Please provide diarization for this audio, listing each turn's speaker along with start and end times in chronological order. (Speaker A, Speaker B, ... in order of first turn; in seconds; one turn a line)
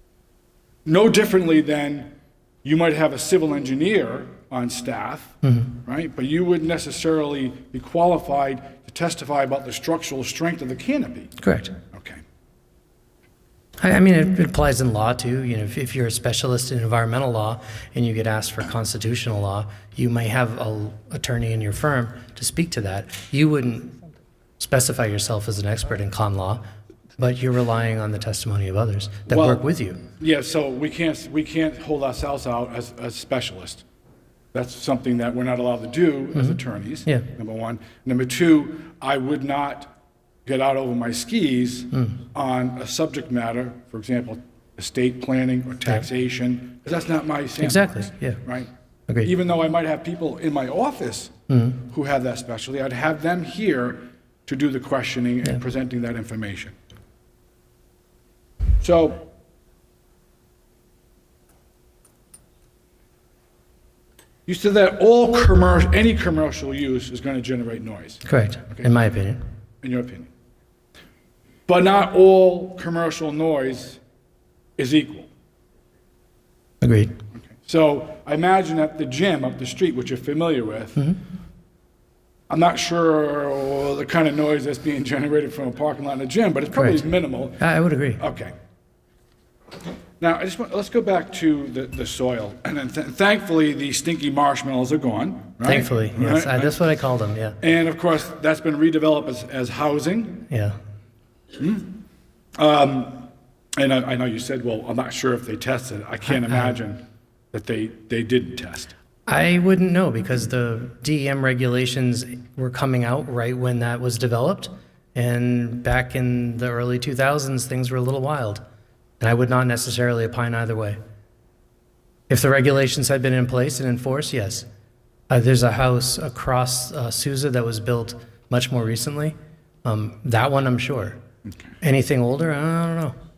Speaker A: 0.9-2.1
Speaker A: 2.6-11.3
Speaker B: 5.4-5.8
Speaker B: 11.4-11.7
Speaker A: 11.9-12.2
Speaker B: 13.8-23.9
Speaker B: 24.6-26.6
Speaker B: 27.2-30.0
Speaker A: 29.3-29.6
Speaker A: 30.2-33.8
Speaker A: 34.5-39.9
Speaker B: 36.4-37.2
Speaker A: 40.5-48.7
Speaker B: 47.6-48.4
Speaker A: 49.2-56.7
Speaker B: 51.5-51.8
Speaker A: 58.8-59.2
Speaker A: 64.5-68.9
Speaker B: 68.2-69.4
Speaker A: 69.8-70.3
Speaker A: 71.7-74.0
Speaker A: 74.8-75.3
Speaker B: 76.8-77.1
Speaker A: 77.5-81.1
Speaker A: 82.5-87.7
Speaker B: 86.7-87.0
Speaker B: 87.6-88.2
Speaker A: 88.2-88.5
Speaker A: 90.2-96.8
Speaker B: 95.6-97.6
Speaker A: 97.6-100.5
Speaker B: 100.5-100.8
Speaker A: 101.6-102.0
Speaker A: 102.6-107.0
Speaker B: 106.3-106.8
Speaker A: 107.5-108.9
Speaker B: 109.3-118.6
Speaker B: 119.2-121.0
Speaker B: 122.3-124.7
Speaker B: 125.3-131.2
Speaker B: 131.8-133.1